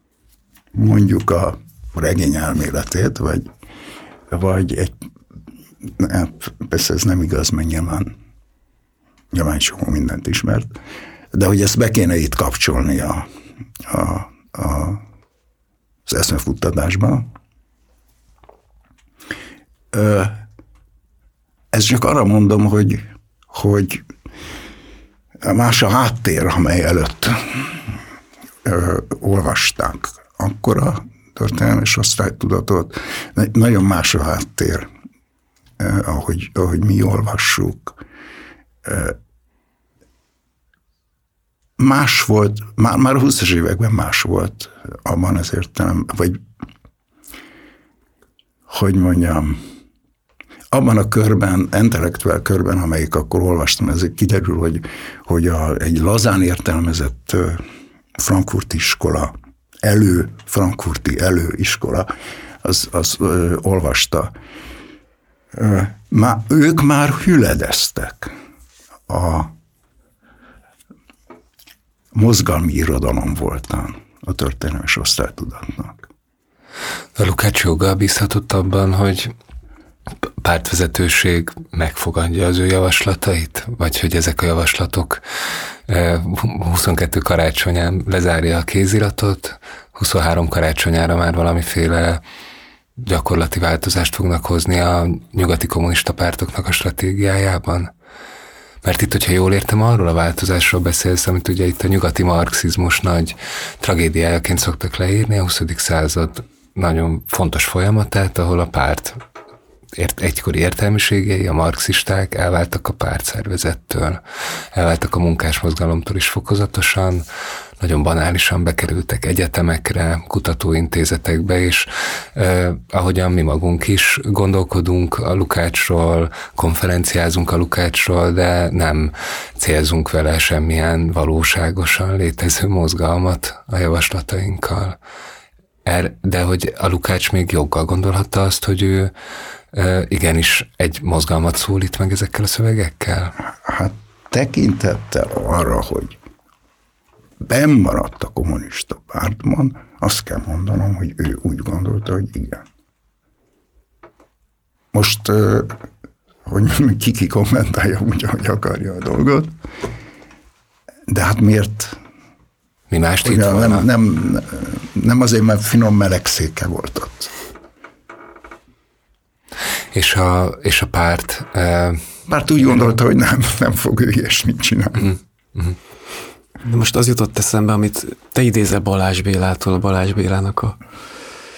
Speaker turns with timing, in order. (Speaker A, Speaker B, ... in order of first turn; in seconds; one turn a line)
Speaker A: 0.7-3.5
Speaker A: 4.3-5.0
Speaker A: 5.9-8.2
Speaker A: 9.3-10.7
Speaker A: 11.3-13.3
Speaker A: 13.8-15.0
Speaker A: 16.1-17.3
Speaker A: 19.9-20.4
Speaker A: 21.7-24.1
Speaker A: 25.4-27.8
Speaker A: 28.6-34.9
Speaker A: 35.8-38.0
Speaker A: 38.9-39.2
Speaker A: 41.8-46.4
Speaker A: 48.7-49.6
Speaker A: 50.7-57.6
Speaker A: 58.2-62.1
Speaker A: 62.6-64.3
Speaker A: 65.5-68.3
Speaker A: 69.1-69.5
Speaker A: 72.1-76.1
Speaker B: 77.2-79.3
Speaker B: 80.2-85.2
Speaker B: 85.9-92.2
Speaker B: 93.0-97.9
Speaker B: 98.8-109.2
Speaker B: 110.0-114.2
Speaker B: 114.7-117.3
Speaker B: 117.8-135.0
Speaker B: 135.8-139.1
Speaker B: 139.7-143.3
Speaker A: 143.4-146.2
Speaker A: 147.4-152.7
Speaker A: 154.9-155.8
Speaker A: 156.5-159.6
Speaker A: 161.1-162.0
Speaker B: 162.9-163.9
Speaker A: 163.2-167.3
Speaker B: 169.9-172.1
Speaker A: 172.3-175.2
Speaker C: 176.6-180.8